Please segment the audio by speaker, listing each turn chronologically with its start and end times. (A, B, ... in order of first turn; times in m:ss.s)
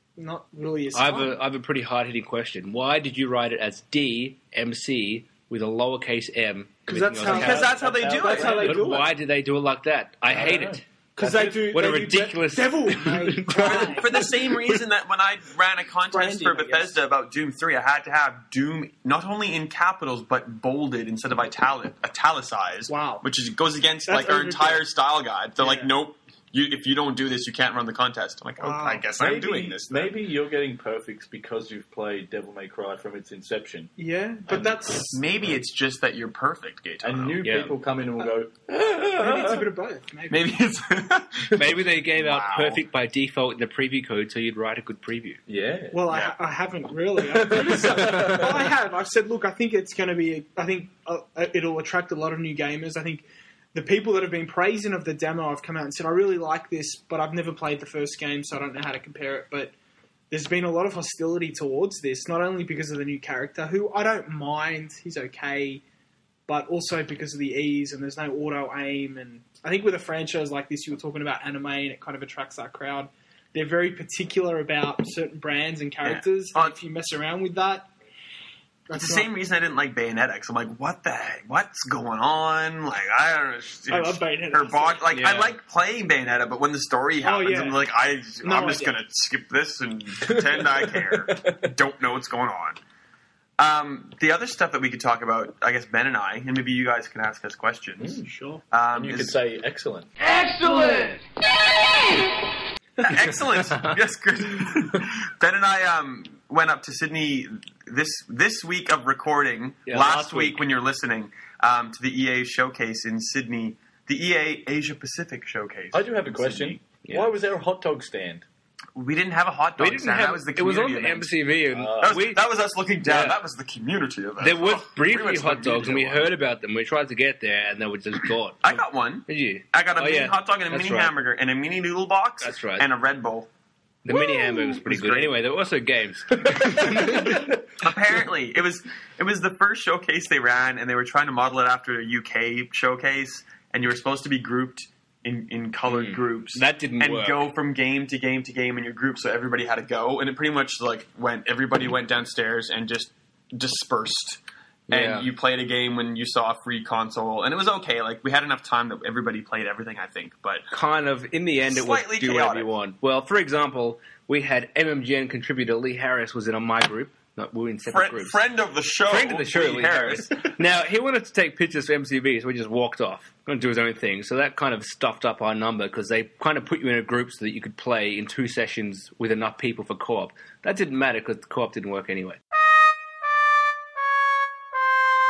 0:00.2-0:01.4 A
0:00.9-0:07.7 B
0:06.9-0:09.1 A
0:07.2-0:08.7 C
0:07.2-0:09.1 D
0:08.6-0:10.8 B
0:10.2-0:11.8 D
0:11.2-0:14.2 A
0:11.7-0:14.8 B
0:13.6-0:30.1 C
0:16.1-0:17.0 A
0:22.9-0:23.2 A
0:24.0-0:24.8 A
0:25.6-0:25.9 A
0:28.6-0:29.0 A
0:29.2-0:33.9 D
0:34.0-0:35.2 A
0:34.5-0:37.4 C
0:37.0-0:39.7 D
0:37.4-0:37.7 B
0:39.2-0:40.5 A
0:40.3-0:42.8 C
0:41.5-0:45.4 B
0:45.5-0:46.0 D
0:45.9-0:59.7 A
0:46.1-0:46.3 C
0:47.4-0:48.5 D
0:47.5-0:48.4 B
1:00.3-1:05.8 A
1:06.5-1:17.9 A
1:16.0-1:16.8 C
1:18.9-1:19.3 A
1:18.9-1:32.8 C
1:23.9-1:25.0 A
1:25.1-1:25.6 B
1:27.2-1:27.8 A
1:28.4-1:28.9 A
1:33.6-1:39.4 C
1:38.0-1:38.3 D
1:38.2-1:38.6 A
1:38.9-1:40.1 D
1:40.2-1:42.4 E
1:43.0-1:56.8 C
1:49.9-1:50.6 B
1:55.9-1:58.4 D
1:57.0-1:57.3 B
1:59.0-2:01.3 C
1:59.8-2:02.4 B
2:01.7-2:02.2 D
2:02.0-2:06.3 C
2:03.0-2:03.4 B
2:04.4-2:11.1 B
2:08.6-2:13.5 C
2:12.4-2:12.8 B
2:14.0-2:17.5 B
2:14.6-2:15.4 C
2:17.3-2:40.7 C
2:25.9-2:27.4 B
2:34.9-2:35.3 B
2:40.7-2:48.4 B
2:41.6-2:42.7 C
2:47.9-2:50.4 C
2:49.1-3:02.4 B